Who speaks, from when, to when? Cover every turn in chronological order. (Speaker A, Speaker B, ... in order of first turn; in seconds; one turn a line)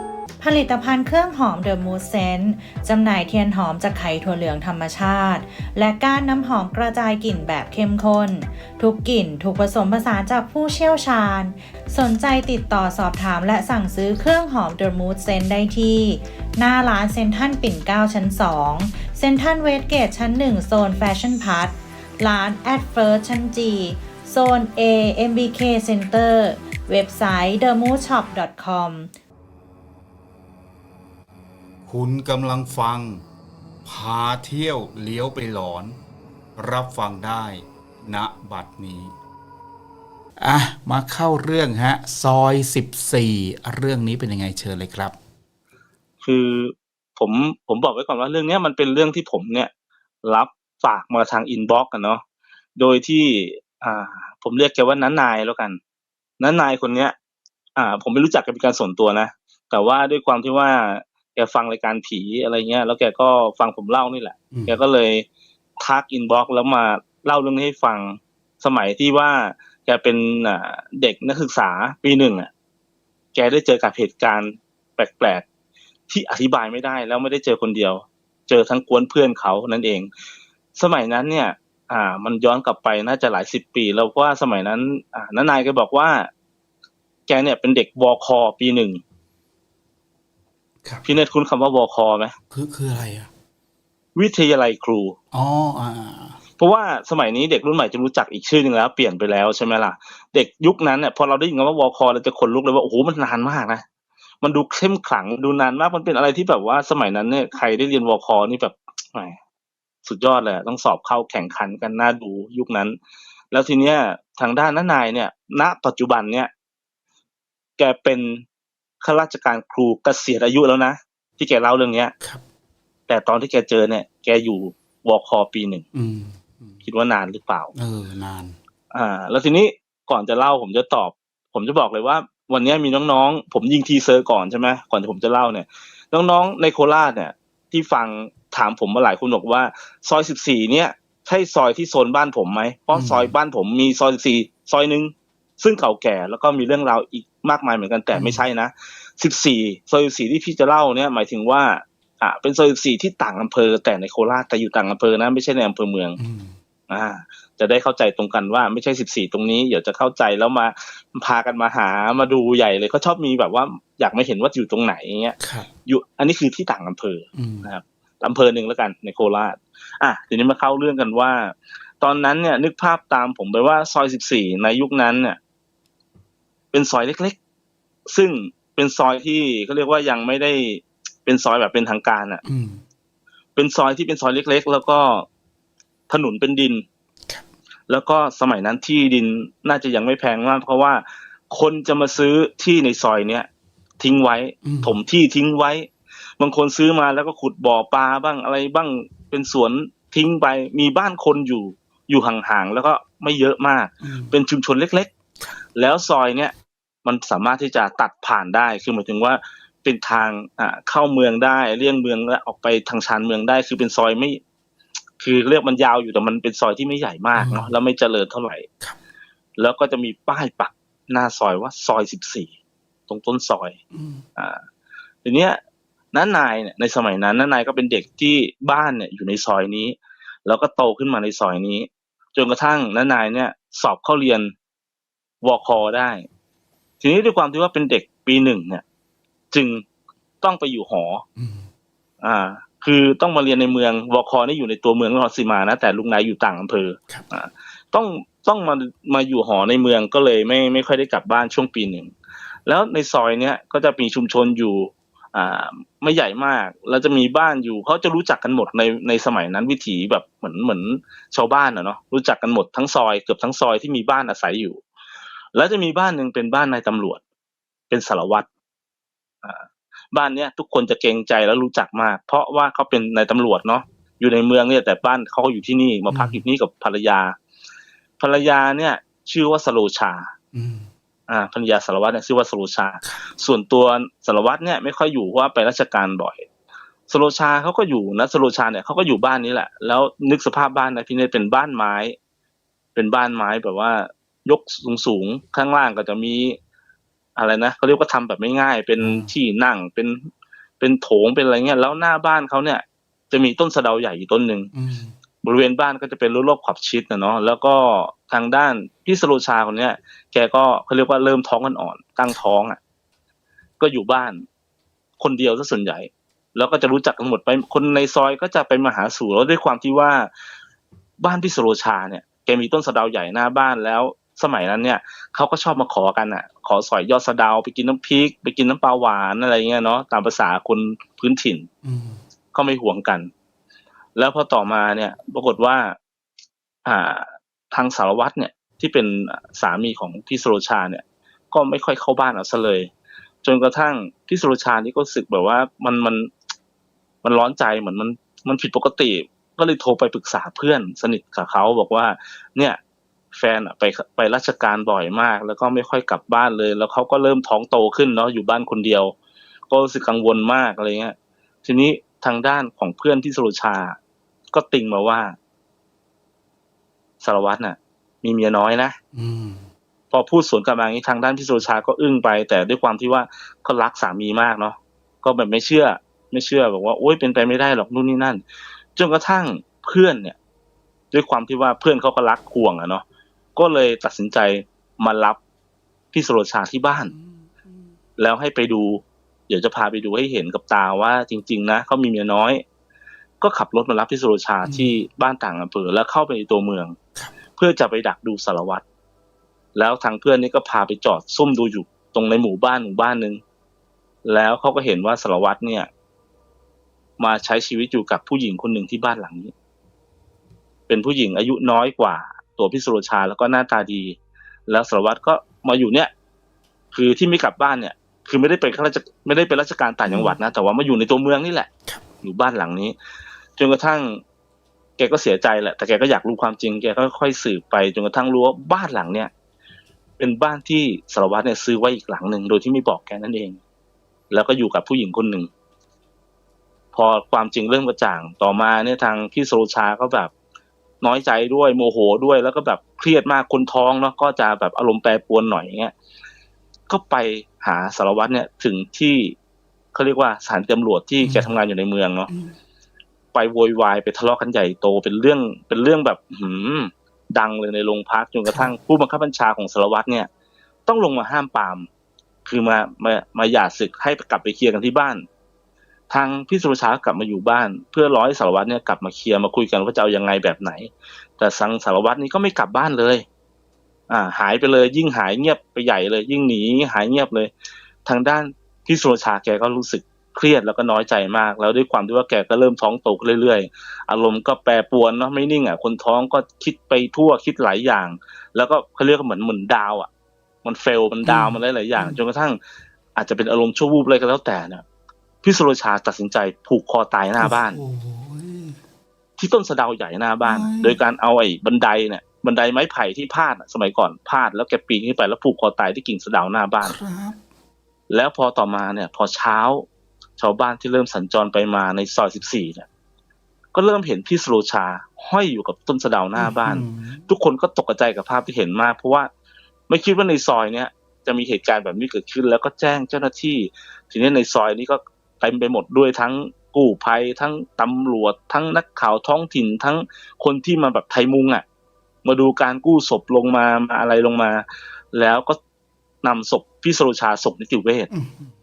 Speaker A: 0.4-29.1
Speaker B: 31.9-33.2
Speaker B: 33.8-36.0
Speaker B: 36.5-39.1
Speaker B: 40.4-45.1
Speaker C: 46.2-49.7
Speaker C: 50.2-52.2
Speaker C: 52.8-55.8
Speaker C: 56.4-57.1
Speaker C: 57.8-65.2
Speaker B: 64.5-64.8
Speaker C: 65.8-72.5
Speaker C: 73.3-75.5
Speaker C: 76.1-80.1
Speaker C: 80.7-86.3
Speaker C: 87.3-89.0
Speaker C: 91.0-92.3
Speaker B: 92.5-93.3
Speaker C: 94.2-95.2
Speaker B: 95.3-96.4
Speaker C: 96.6-103.8
Speaker C: 104.4-109.4
Speaker C: 110.0-113.0
Speaker C: 113.5-116.5
Speaker C: 117.8-118.4
Speaker C: 119.0-122.1
Speaker C: 123.1-125.8
Speaker B: 125.9-126.8
Speaker C: 126.8-127.7
Speaker B: 127.7-128.6
Speaker C: 128.9-156.2
Speaker B: 142.9-143.3
Speaker B: 148.1-148.4
Speaker B: 156.2-156.6
Speaker C: 156.9-175.4
Speaker B: 165.4-165.7
Speaker B: 167.3-167.7
Speaker C: 176.7-177.4
Speaker C: 178.1-182.4
Speaker B: 182.4-182.8
Speaker C: 183.6-185.3
Speaker C: 186.1-186.8
Speaker C: 187.9-193.5
Speaker C: 194.0-205.1
Speaker B: 194.6-194.9
Speaker B: 204.0-204.3
Speaker C: 205.7-206.5
Speaker C: 207.0-214.4
Speaker C: 215.2-218.7
Speaker B: 217.4-217.7
Speaker C: 219.6-222.5
Speaker C: 223.1-223.8
Speaker B: 223.9-224.2
Speaker C: 224.3-224.6
Speaker C: 225.2-225.6
Speaker C: 226.1-234.5
Speaker C: 235.4-236.3
Speaker C: 237.0-238.8
Speaker C: 239.5-239.8
Speaker C: 240.4-241.2
Speaker B: 241.4-241.7
Speaker C: 242.2-252.1
Speaker C: 252.7-264.8
Speaker C: 265.5-267.2
Speaker C: 267.9-268.5
Speaker C: 269.4-277.4
Speaker B: 276.1-276.4
Speaker C: 278.2-280.3
Speaker B: 280.5-280.9
Speaker C: 281.3-286.5
Speaker C: 287.1-292.1
Speaker C: 292.9-296.6
Speaker C: 297.4-300.3
Speaker B: 299.0-299.3
Speaker C: 300.8-304.7
Speaker B: 304.7-305.1
Speaker C: 305.4-312.8
Speaker C: 313.8-314.4
Speaker C: 315.2-320.3
Speaker C: 321.2-331.7
Speaker B: 331.8-332.2
Speaker C: 332.5-333.3
Speaker C: 334.1-336.0
Speaker C: 336.8-342.9
Speaker C: 343.4-346.3
Speaker C: 347.2-352.8
Speaker C: 353.3-359.1
Speaker C: 359.7-364.0
Speaker C: 364.5-365.4
Speaker C: 367.2-369.0
Speaker B: 369.1-369.7
Speaker C: 370.1-378.4
Speaker C: 378.9-380.4
Speaker C: 381.1-383.0
Speaker C: 383.6-385.4
Speaker C: 386.1-387.1
Speaker B: 387.1-387.8
Speaker C: 388.2-392.6
Speaker C: 393.4-397.0
Speaker B: 394.6-394.9
Speaker C: 397.6-398.8
Speaker C: 399.7-403.4
Speaker C: 404.2-405.9
Speaker C: 407.2-409.5
Speaker C: 410.9-416.1
Speaker C: 416.9-421.7
Speaker B: 420.1-420.4
Speaker C: 422.2-422.9
Speaker C: 423.6-424.2
Speaker C: 425.0-429.3
Speaker C: 430.2-433.6
Speaker C: 434.3-435.5
Speaker C: 436.9-440.3
Speaker C: 441.0-445.9
Speaker C: 446.9-449.4
Speaker C: 449.9-452.3
Speaker B: 451.2-451.5
Speaker B: 452.3-452.5
Speaker C: 453.3-460.3
Speaker C: 460.9-461.9
Speaker C: 462.4-465.2
Speaker C: 466.1-473.2
Speaker C: 474.1-477.5
Speaker C: 478.0-490.1
Speaker C: 490.6-492.6
Speaker B: 491.2-492.2
Speaker C: 493.1-494.8
Speaker C: 495.4-497.8
Speaker B: 497.4-498.8
Speaker C: 499.4-506.9
Speaker B: 500.4-501.0
Speaker B: 506.8-507.4
Speaker C: 508.1-512.9
Speaker C: 513.7-519.3
Speaker B: 516.4-517.2
Speaker C: 519.9-531.6
Speaker C: 532.2-535.6
Speaker C: 536.2-538.1
Speaker B: 538.1-538.5